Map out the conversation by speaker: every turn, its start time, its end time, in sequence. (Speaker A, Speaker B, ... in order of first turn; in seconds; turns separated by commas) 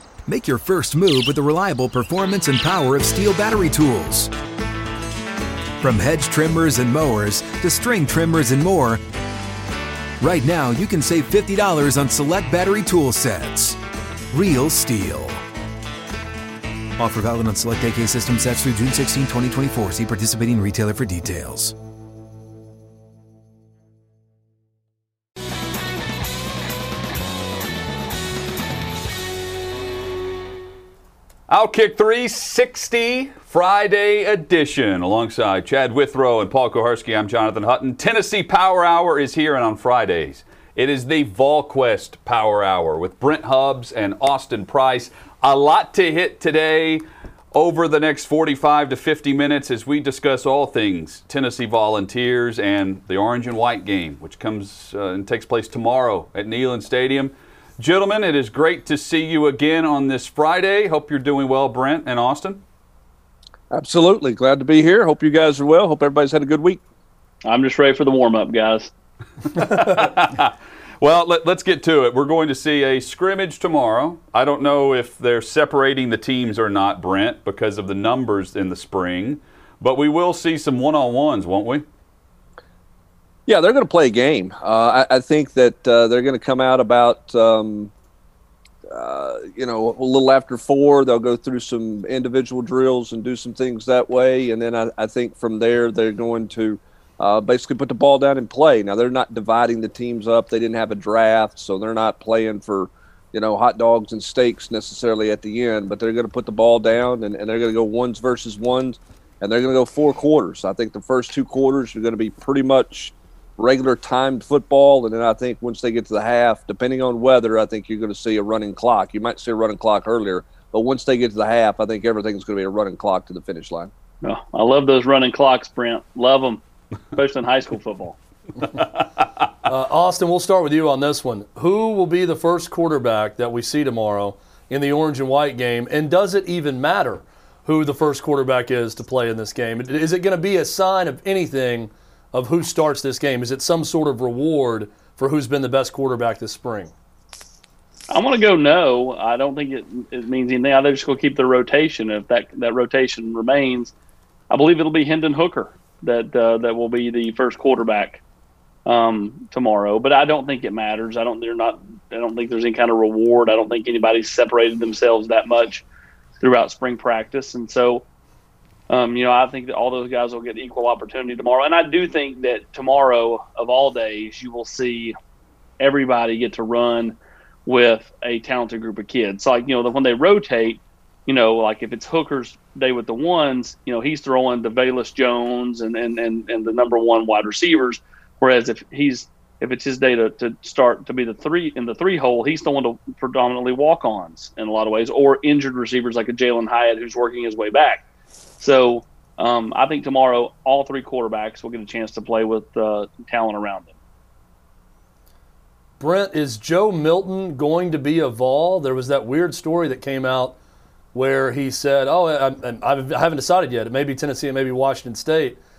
Speaker A: 0.3-4.3, Speaker A: 5.8-9.0, Speaker A: 10.2-13.8, Speaker A: 14.3-15.4, Speaker A: 17.0-21.8, Speaker B: 31.5-62.6, Speaker C: 63.7-66.8, Speaker D: 67.4-68.9, Speaker B: 69.5-81.8, Speaker C: 83.5-87.9, Speaker C: 88.9-123.9, Speaker D: 124.2-126.6, Speaker D: 127.1-128.2, Speaker E: 129.6-146.9, Speaker D: 148.1-153.9, Speaker D: 154.5-158.2, Speaker D: 158.8-165.8, Speaker D: 166.4-168.0, Speaker D: 168.9-175.1, Speaker D: 175.8-198.0, Speaker D: 198.6-203.9, Speaker E: 206.0-210.5, Speaker E: 211.1-215.6